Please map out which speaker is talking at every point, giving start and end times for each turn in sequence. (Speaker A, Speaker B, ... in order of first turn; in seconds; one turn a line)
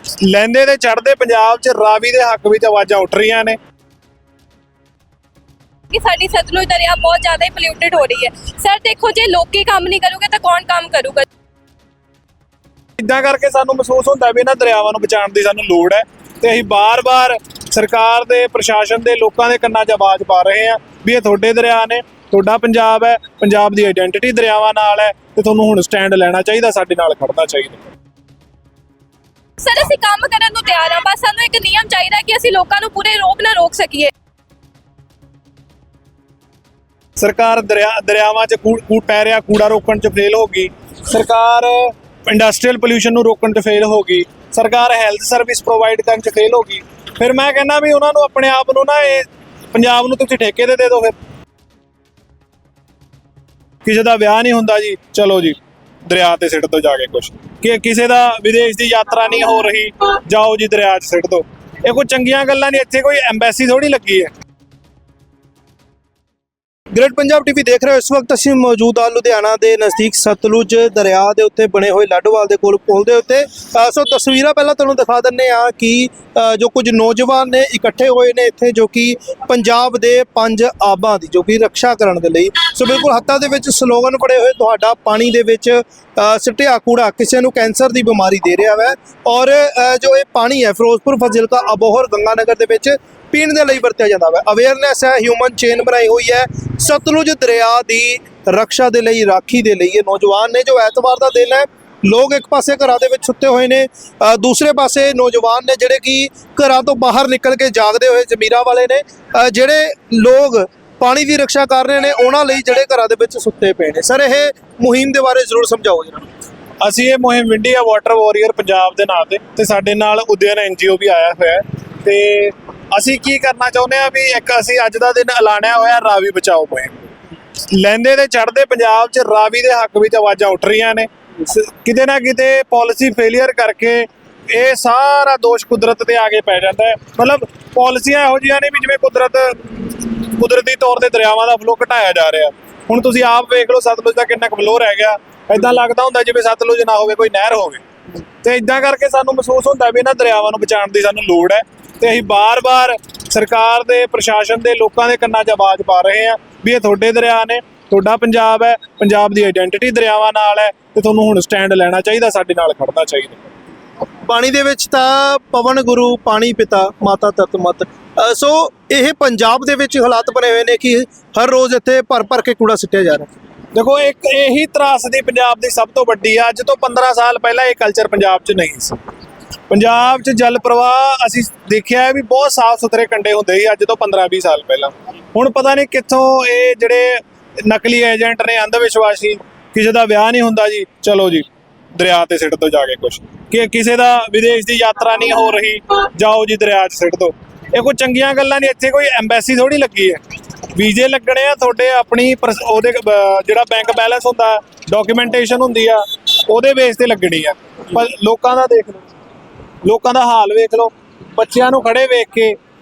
Speaker A: 0.2-3.6
Speaker B: 5.9-11.3
Speaker A: 13.0-27.8
Speaker B: 29.6-34.1
Speaker A: 37.2-51.1
Speaker A: 53.8-64.3
Speaker C: 66.9-116.2
Speaker A: 116.8-127.1
Speaker A: 127.7-147.8
Speaker A: 148.4-163.5
Speaker C: 164.3-173.3
Speaker A: 173.7-179.0
Speaker A: 179.7-209.1
Speaker A: 209.8-212.6